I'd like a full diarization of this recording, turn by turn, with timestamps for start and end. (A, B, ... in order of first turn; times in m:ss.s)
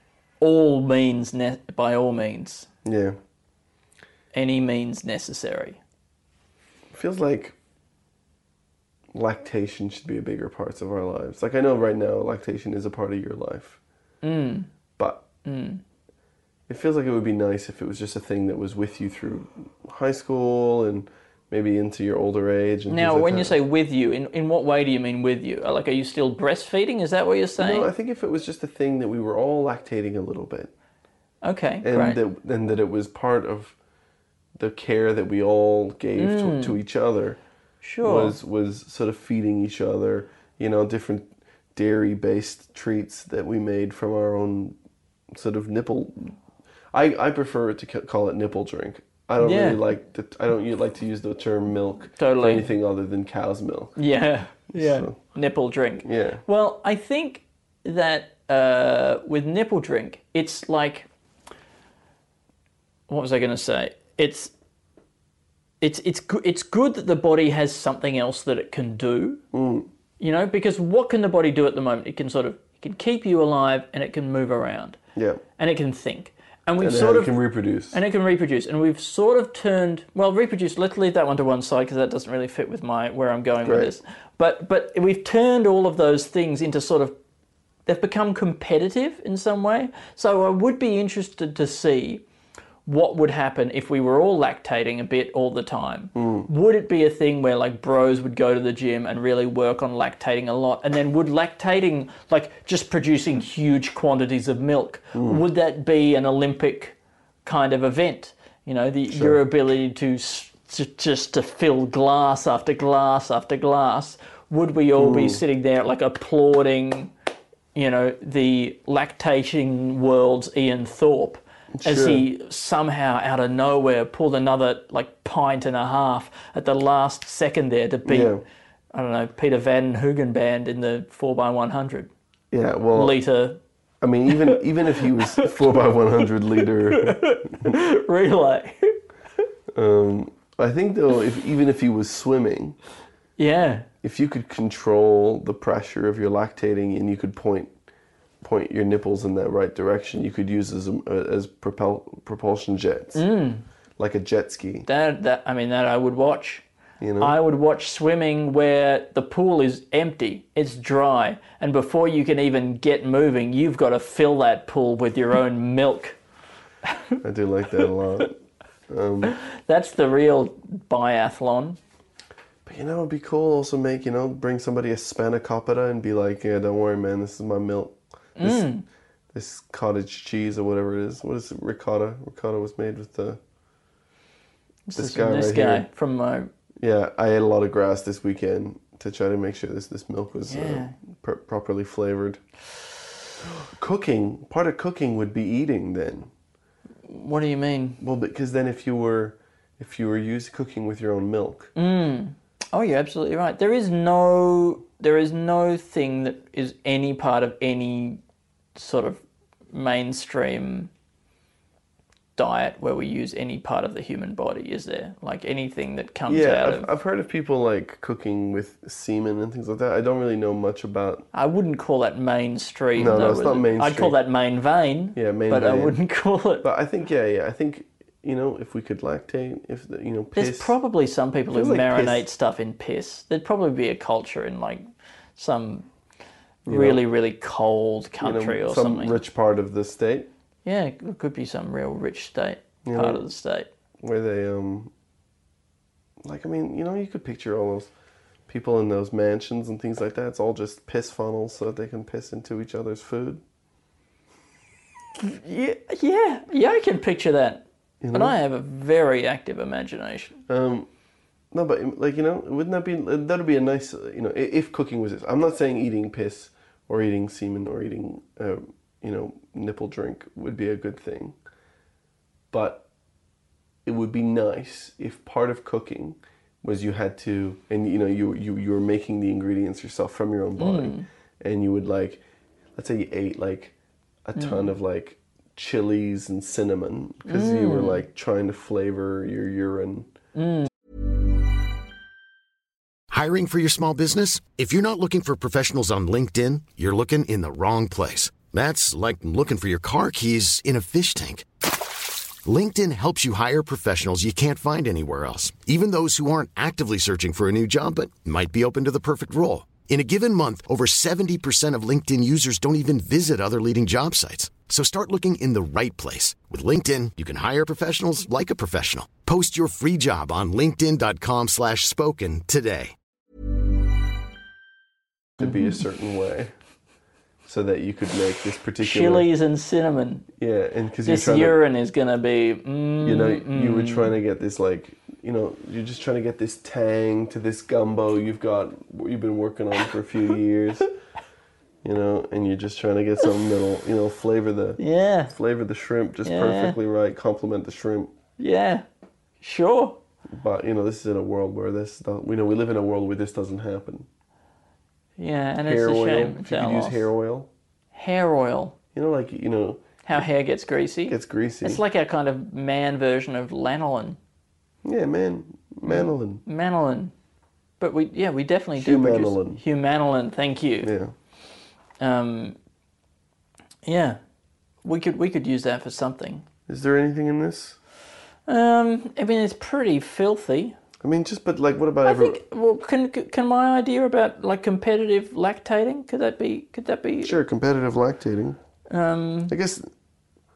0:00.4-0:02.7 A
0:02.8-0:03.2 B
0:04.3-0:05.8 A
0:06.9-0:07.6 B
0:09.1-0:13.8 B
0:14.2-0:14.7 A
0:15.0-0:15.3 B
0:15.4-0:15.8 A
0:16.7-0:23.6 B
0:22.9-0:27.9 A
0:27.6-0:30.7 B
0:31.4-0:32.2 A
0:31.8-0:33.8 B
0:34.6-0:37.4 B
0:36.2-0:36.8 A
0:37.8-0:38.4 A
0:38.0-0:44.8 B
0:45.3-0:46.4 B
0:46.9-0:54.0 B
0:49.4-0:49.8 A
0:52.2-0:52.7 A
0:54.0-1:01.1 A
0:54.7-0:55.2 B
0:56.0-0:56.4 B
1:03.1-1:04.5 A
1:05.8-1:09.4 A
1:09.5-1:09.9 B
1:10.2-1:15.0 A
1:15.2-1:15.4 B
1:15.6-1:17.4 A
1:16.8-1:18.0 B
1:17.9-1:27.2 A
1:23.6-1:24.0 B
1:27.9-1:32.2 A
1:32.9-1:57.1 A
1:36.2-1:36.5 B
1:45.1-1:45.4 B
1:49.1-1:49.4 B
1:55.0-1:55.4 B
1:57.8-2:08.4 A
2:01.8-2:02.3 B
2:08.1-2:08.4 B
2:08.9-2:12.1 A
2:12.5-2:13.2 B
2:12.9-2:13.6 A
2:14.0-2:17.8 B
2:14.3-2:15.6 A
2:16.6-2:19.0 A
2:19.8-2:22.8 B
2:23.4-2:23.9 A
2:24.0-2:27.7 B
2:28.4-2:33.2 B
2:33.2-2:33.6 A
2:34.0-2:34.9 B
2:34.9-2:36.6 A
2:37.0-2:37.4 B
2:37.2-2:46.2 A
2:47.2-2:48.4 B
2:48.9-2:49.4 B
2:49.3-2:51.8 A
2:52.7-2:58.7 B
2:58.4-2:58.8 A
2:59.3-3:03.4 B
3:04.9-3:06.5 A
3:05.0-3:05.9 B
3:06.8-3:12.4 B
3:10.5-3:11.0 A
3:13.4-3:16.3 B
3:17.0-3:18.0 A
3:18.0-3:21.7 B
3:21.8-3:28.2 A
3:28.8-3:30.9 A
3:32.4-3:36.9 A
3:36.3-3:41.3 B
3:41.3-3:46.7 A
3:43.0-3:44.2 B
3:45.2-3:46.0 B
3:46.6-3:50.7 B
3:50.4-3:54.8 A
3:51.5-3:52.3 B
3:55.4-3:55.9 A
3:56.6-3:57.0 B
3:56.7-3:59.2 A
3:58.2-4:00.3 B
4:00.6-4:03.7 A
4:02.8-4:03.3 B
4:04.0-4:04.9 B
4:06.2-4:07.9 B
4:08.5-4:13.4 B
4:15.2-4:20.4 A
4:18.0-4:18.4 B
4:20.5-4:20.9 B
4:21.5-4:31.4 B
4:32.5-4:32.8 B
4:33.9-4:42.2 B
4:40.6-4:41.1 A
4:42.8-4:43.7 B
4:44.3-4:50.1 B
4:44.4-4:44.7 A
4:47.3-4:48.0 A
4:50.4-4:50.7 A
4:53.1-5:01.5 C
5:02.4-5:22.9 C
5:25.4-5:26.5 B
5:27.5-5:29.3 B
5:28.8-5:30.3 A
5:30.4-5:31.6 B
5:31.0-5:34.1 A
5:33.0-5:40.9 B
5:41.8-5:48.1 B
5:44.8-5:45.3 A
5:46.2-5:46.8 A
5:48.4-5:48.8 A
5:49.4-5:50.0 A
5:50.3-5:54.1 B
5:55.2-5:57.1 A
5:55.6-5:57.5 B
5:57.9-5:58.8 A
5:59.0-6:00.2 B
6:00.0-6:04.2 A
6:01.1-6:01.8 B
6:04.8-6:06.4 B
6:05.9-6:07.1 A
6:07.8-6:10.9 A
6:08.8-6:09.6 B
6:10.8-6:11.1 B
6:12.0-6:12.6 A
6:13.8-6:14.2 A
6:14.8-6:16.4 A
6:16.7-6:17.8 B
6:18.5-6:20.8 A
6:21.0-6:22.4 B
6:22.0-6:27.4 A
6:27.2-6:28.6 B
6:28.9-6:29.5 A
6:29.5-6:29.9 B